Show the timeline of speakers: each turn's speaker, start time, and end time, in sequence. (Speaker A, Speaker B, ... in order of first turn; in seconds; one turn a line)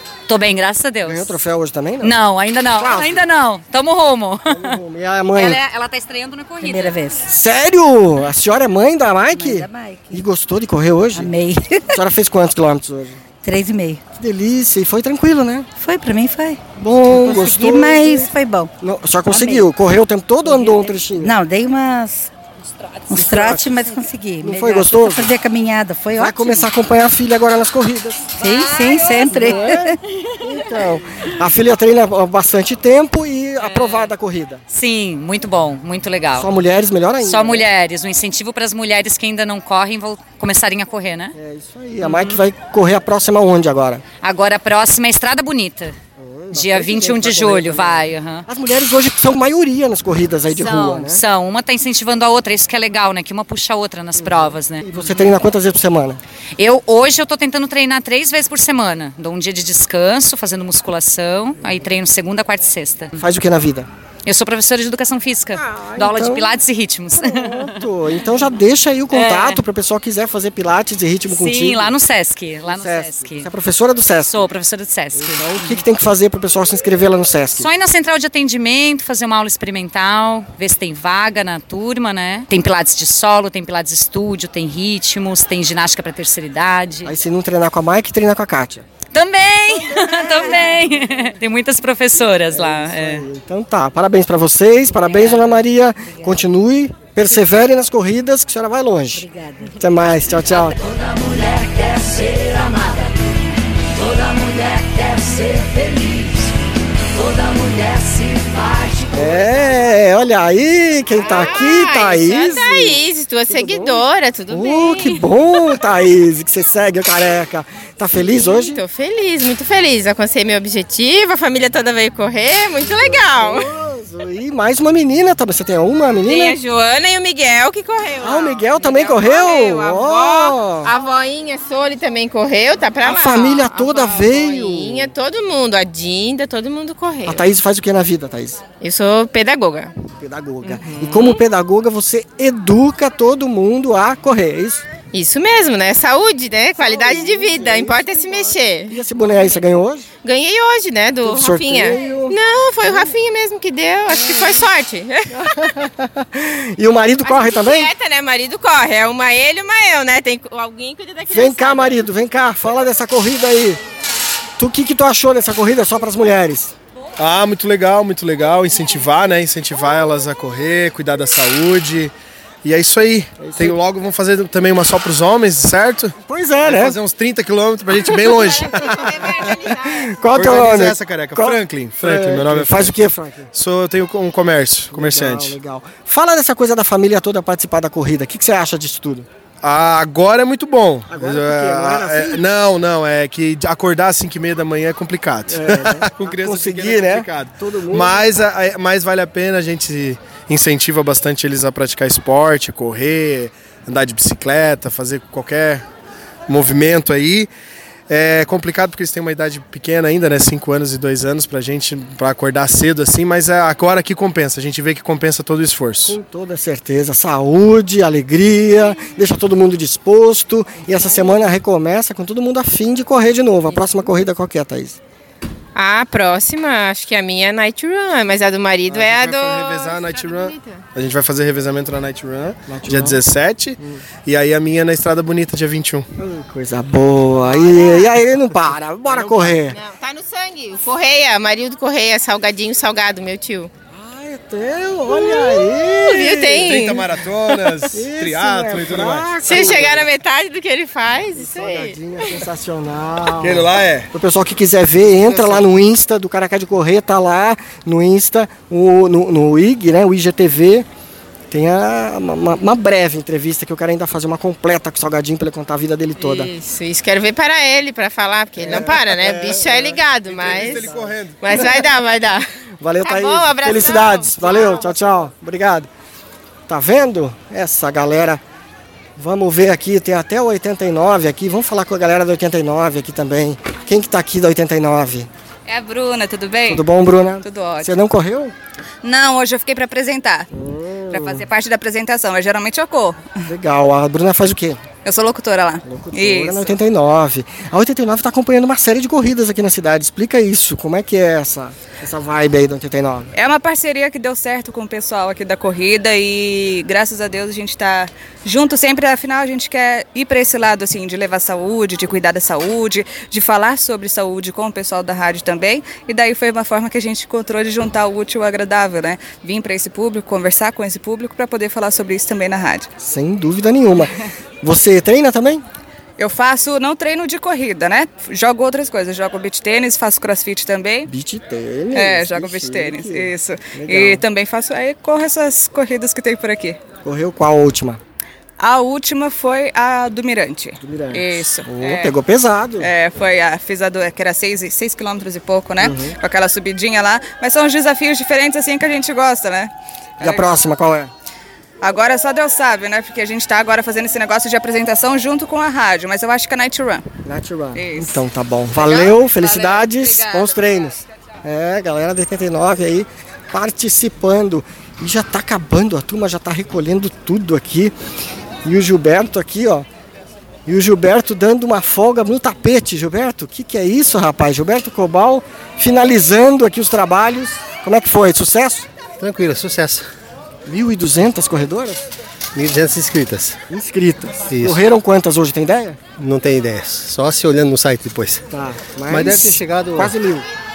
Speaker A: 0.3-1.4
Speaker B: 1.1-2.2
Speaker A: 2.0-4.8
Speaker B: 2.8-3.2
Speaker B: 4.5-5.6
Speaker A: 5.4-6.9
Speaker B: 7.3-11.3
Speaker B: 11.9-13.2
Speaker C: 13.4-14.0
Speaker B: 14.1-15.7
Speaker C: 15.8-16.6
Speaker B: 16.8-21.4
Speaker C: 18.0-18.7
Speaker C: 21.3-22.3
Speaker C: 23.1-24.6
Speaker B: 23.1-23.9
Speaker B: 24.4-25.3
Speaker C: 25.2-26.4
Speaker B: 26.2-28.3
Speaker C: 28.4-29.5
Speaker B: 29.3-34.6
Speaker A: 33.6-34.1
Speaker A: 34.7-36.5
Speaker B: 36.4-37.7
Speaker A: 37.2-41.3
Speaker B: 41.4-44.0
Speaker A: 42.0-42.3
Speaker A: 44.2-46.0
Speaker B: 46.2-51.2
Speaker A: 46.5-48.5
Speaker A: 50.5-55.3
Speaker B: 54.2-56.2
Speaker A: 56.6-63.2
Speaker B: 63.2-63.9
Speaker A: 64.3-67.8
Speaker B: 65.5-66.6
Speaker B: 67.2-71.9
Speaker A: 69.1-69.6
Speaker A: 71.3-73.5
Speaker B: 72.7-74.5
Speaker A: 74.2-75.8
Speaker B: 75.1-77.7
Speaker A: 77.6-87.1
Speaker B: 87.0-88.8
Speaker A: 89.1-93.2
Speaker B: 89.8-90.7
Speaker B: 92.5-100.8
Speaker D: 100.8-103.1
Speaker D: 104.0-106.5
Speaker D: 107.2-109.4
Speaker B: 109.1-118.8
Speaker E: 111.2-115.2
Speaker E: 118.2-123.7
Speaker B: 123.3-126.6
Speaker E: 126.3-137.4
Speaker B: 128.2-130.9
Speaker B: 133.0-135.1
Speaker B: 137.2-138.6
Speaker E: 138.8-139.9
Speaker B: 140.2-144.8
Speaker E: 140.7-141.3
Speaker E: 145.1-148.9
Speaker B: 146.8-150.1
Speaker E: 150.2-155.4
Speaker B: 151.2-152.4
Speaker B: 155.3-157.9
Speaker E: 157.2-162.0
Speaker B: 161.3-163.8
Speaker B: 164.6-166.8
Speaker F: 167.2-172.1
Speaker F: 172.6-179.2
Speaker B: 173.4-173.8
Speaker B: 176.2-177.0
Speaker B: 178.0-178.5
Speaker E: 178.1-180.2
Speaker B: 179.4-183.5
Speaker F: 180.3-185.6
Speaker B: 184.9-189.3
Speaker F: 189.6-205.8
Speaker B: 191.1-192.4
Speaker B: 195.5-198.3
Speaker F: 206.5-207.5
Speaker F: 208.1-216.2
Speaker B: 216.1-225.0
Speaker E: 225.8-230.8
Speaker F: 228.9-236.1
Speaker B: 232.7-233.2
Speaker B: 236.2-239.8
Speaker E: 237.6-238.1
Speaker F: 239.1-239.4
Speaker E: 239.7-243.7
Speaker B: 243.9-246.7
Speaker E: 245.1-247.1
Speaker F: 246.5-250.0
Speaker B: 247.9-250.1
Speaker E: 249.4-251.9
Speaker B: 251.4-260.9
Speaker F: 253.3-254.1
Speaker F: 255.3-255.6
Speaker B: 261.5-266.5
Speaker E: 266.2-272.4
Speaker B: 268.6-270.0
Speaker F: 268.7-271.7
Speaker B: 272.8-275.9
Speaker E: 273.0-275.2
Speaker B: 276.7-278.4
Speaker B: 279.2-285.3
Speaker G: 285.7-286.9
Speaker B: 286.7-288.5
Speaker G: 287.4-287.9
Speaker G: 289.0-290.5
Speaker B: 290.5-291.5
Speaker G: 291.1-293.3
Speaker B: 293.5-294.8
Speaker G: 295.1-296.8
Speaker B: 295.9-303.3
Speaker G: 303.3-322.9
Speaker B: 323.0-325.6
Speaker G: 326.2-331.1
Speaker B: 331.1-334.2
Speaker G: 331.9-336.8
Speaker B: 337.0-338.0
Speaker G: 338.6-342.1
Speaker B: 340.8-342.9
Speaker G: 342.8-350.5
Speaker B: 345.8-346.2
Speaker B: 350.2-351.1
Speaker G: 351.8-357.1
Speaker B: 357.2-367.9
Speaker G: 357.8-358.2
Speaker B: 368.6-369.9
Speaker B: 370.7-378.9
Speaker H: 379.2-380.1
Speaker B: 380.7-382.1
Speaker H: 382.6-383.6
Speaker B: 383.7-386.0
Speaker H: 384.5-384.9
Speaker H: 386.2-388.4
Speaker B: 388.5-390.5
Speaker H: 389.1-390.1